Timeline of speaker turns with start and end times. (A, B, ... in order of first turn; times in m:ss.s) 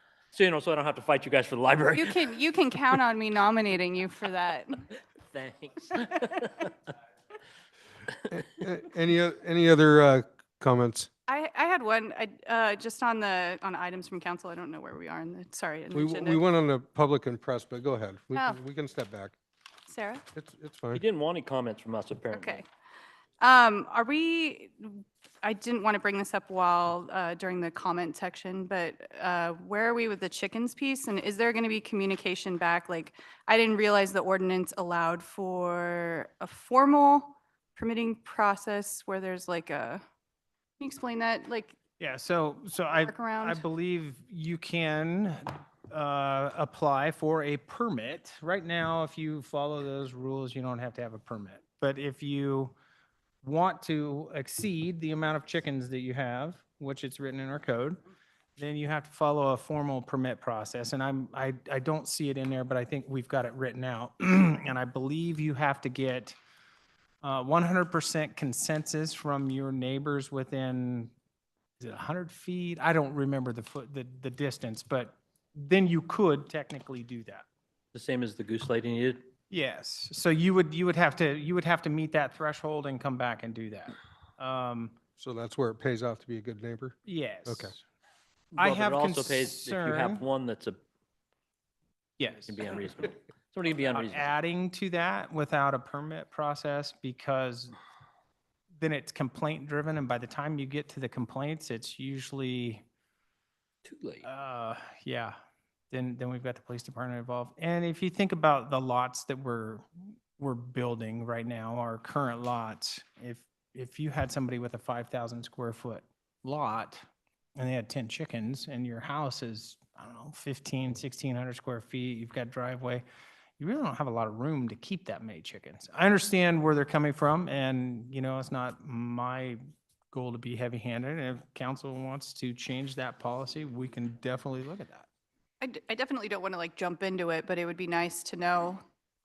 0:00.3-0:02.3 A
0:01.9-0:04.9 B
0:05.2-0:06.7 A
0:08.3-0:11.1 C
0:11.3-0:16.4 B
0:15.9-0:19.3 C
0:19.9-0:20.2 B
0:20.3-0:21.0 C
0:20.9-0:22.6 A
0:22.3-0:22.6 B
0:23.4-0:40.0 B
0:40.8-0:41.8 B
0:42.0-0:52.7 D
0:43.0-0:43.6 B
0:53.4-0:58.0 D
0:58.6-1:06.4 D
1:07.2-1:11.1 D
1:11.8-1:17.4 D
1:17.9-1:19.2 A
1:19.5-1:25.0 D
1:25.2-1:27.7 C
1:27.0-1:27.8 D
1:28.5-1:30.8 A
1:28.6-1:30.2 D
1:32.2-1:32.6 D
1:32.4-1:34.3 A
1:33.9-1:37.8 D
1:38.8-1:42.8 D
1:43.8-1:44.2 A
1:44.2-1:45.3 D
1:45.9-1:57.0 D
1:57.6-2:03.0 D
2:03.6-2:09.6 D
2:10.1-2:15.0 D
2:15.6-2:18.8 B